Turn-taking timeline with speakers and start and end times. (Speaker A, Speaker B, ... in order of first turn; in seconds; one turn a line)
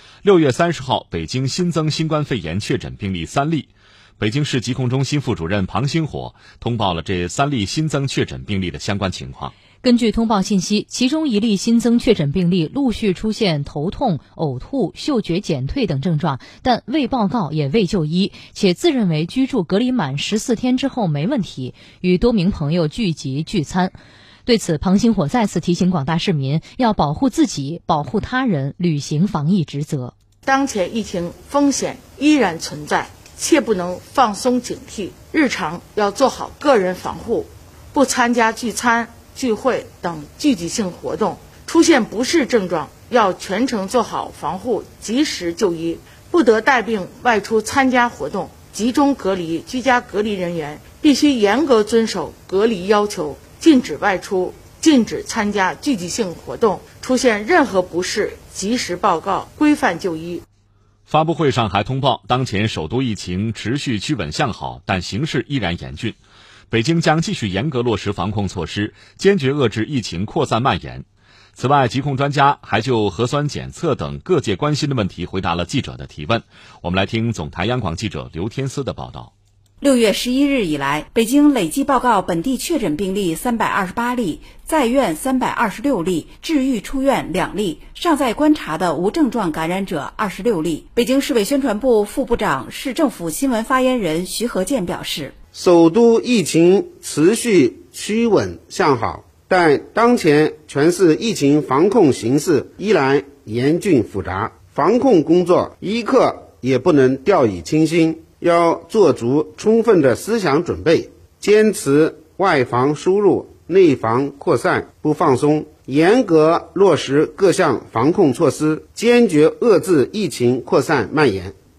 Speaker A: 0.2-9.5
Speaker B: 9.8-23.9
Speaker B: 24.5-30.1
Speaker C: 30.5-60.4
Speaker A: 61.1-66.2
Speaker A: 66.7-79.3
Speaker D: 79.8-95.4
Speaker E: 95.5-121.5